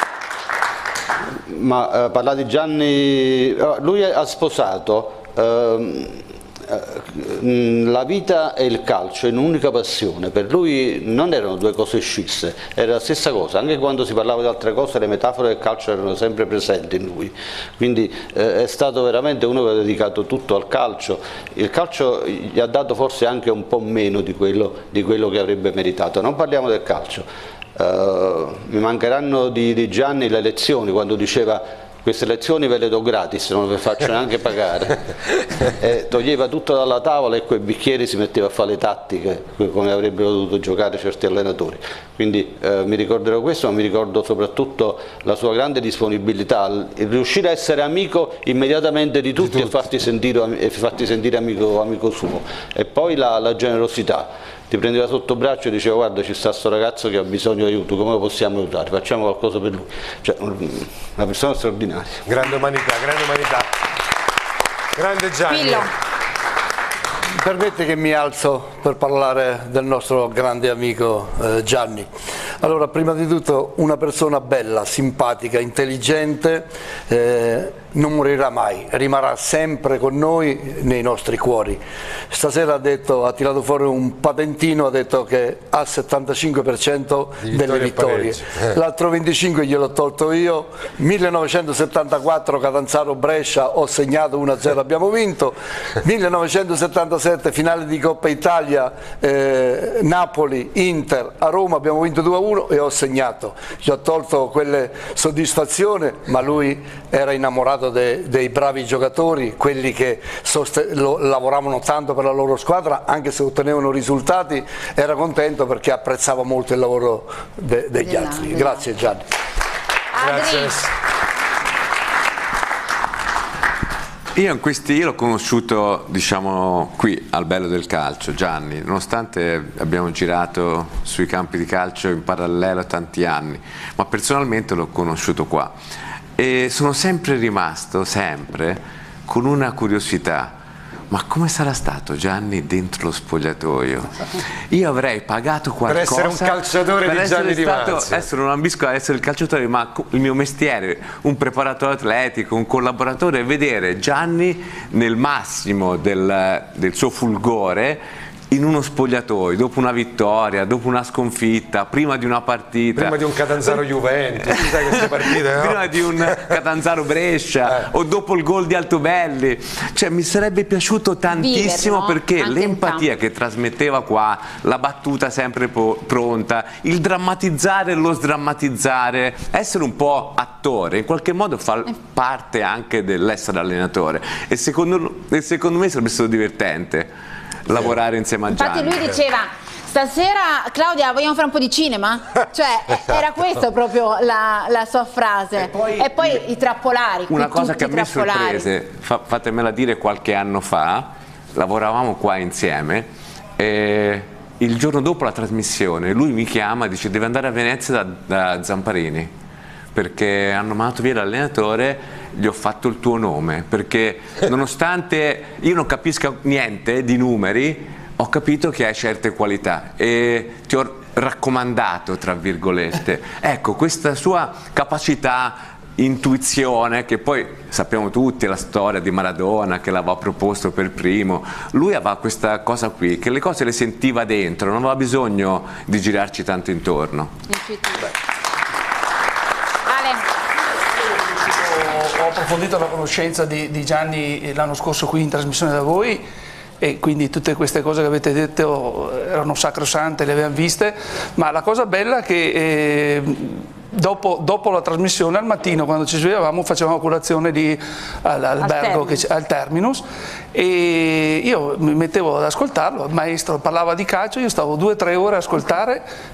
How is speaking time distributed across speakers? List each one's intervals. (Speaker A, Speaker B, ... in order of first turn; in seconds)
Speaker A: 1.5-35.0, 35.8-62.2
Speaker B: 49.4-49.8, 62.3-63.7, 65.0-65.9, 87.5-88.7, 120.2-120.9, 145.9-148.2, 163.0-166.5
Speaker C: 65.5-65.9, 118.0-118.8, 120.1-120.8, 171.3-173.1, 188.6-198.7, 237.5-238.1, 239.9-240.2, 258.6-259.2
Speaker D: 67.4-72.1, 72.6-119.2
Speaker E: 124.3-135.8, 136.4-140.6, 141.1-163.8, 164.5-187.1, 187.7-189.2, 195.7-196.0, 197.3-209.3, 209.9-237.3
Speaker F: 241.2-246.2, 246.8-266.1